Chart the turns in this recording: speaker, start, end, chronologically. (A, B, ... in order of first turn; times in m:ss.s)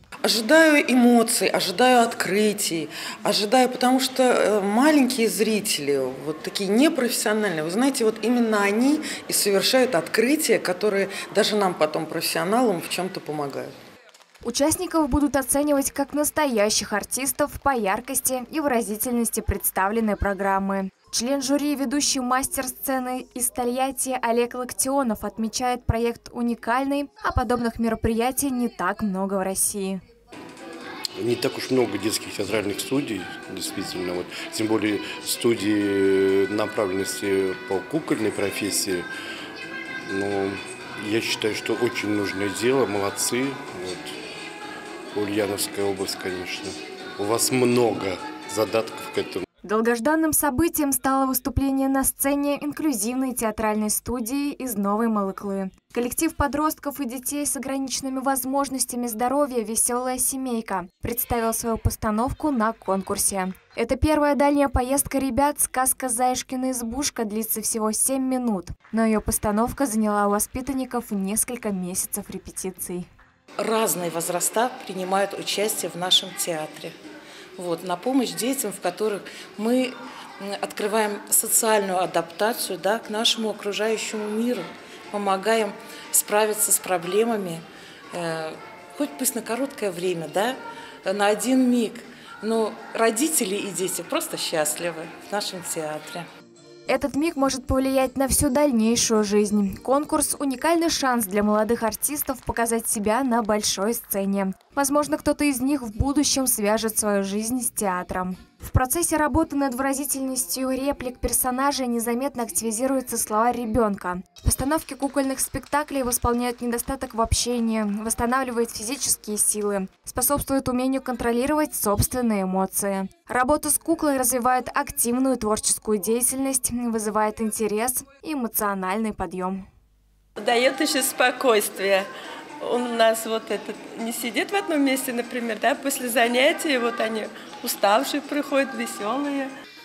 0:00.2-0:13.7 A
0:14.4-0:30.0 B
0:31.2-0:39.1 C
0:40.1-0:44.2 C
0:45.1-0:49.4 C
0:49.6-1:13.1 B
1:13.6-1:16.9 D
1:17.6-1:36.3 D
1:36.9-2:09.6 B
2:10.4-2:12.1 E
2:12.6-2:19.5 E